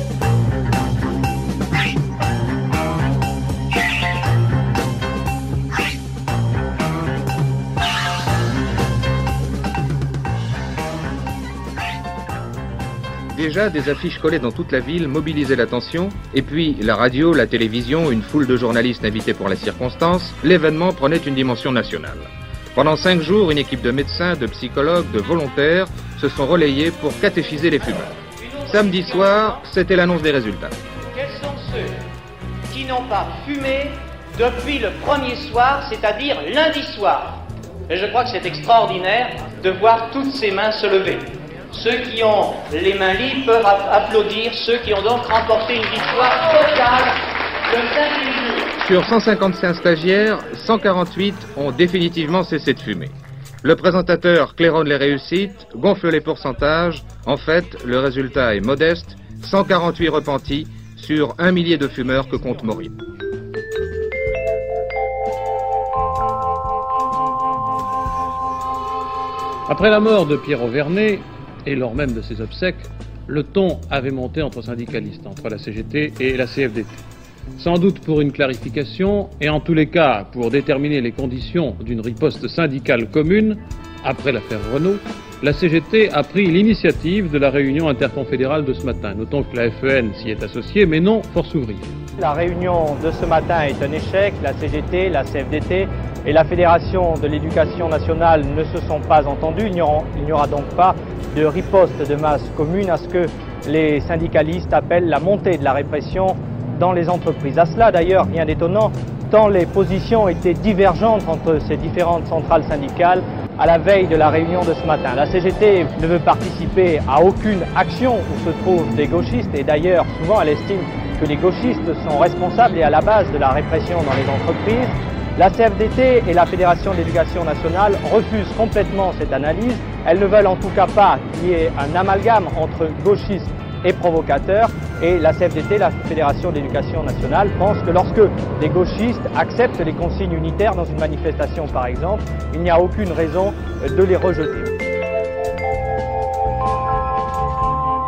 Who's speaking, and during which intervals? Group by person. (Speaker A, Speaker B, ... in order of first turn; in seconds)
Speaker A: 13.3-28.1, 28.7-30.8, 48.8-63.0
Speaker B: 28.4-29.6, 31.1-32.0, 32.7-48.7
Speaker C: 69.7-77.0, 77.6-91.9
Speaker D: 92.2-144.7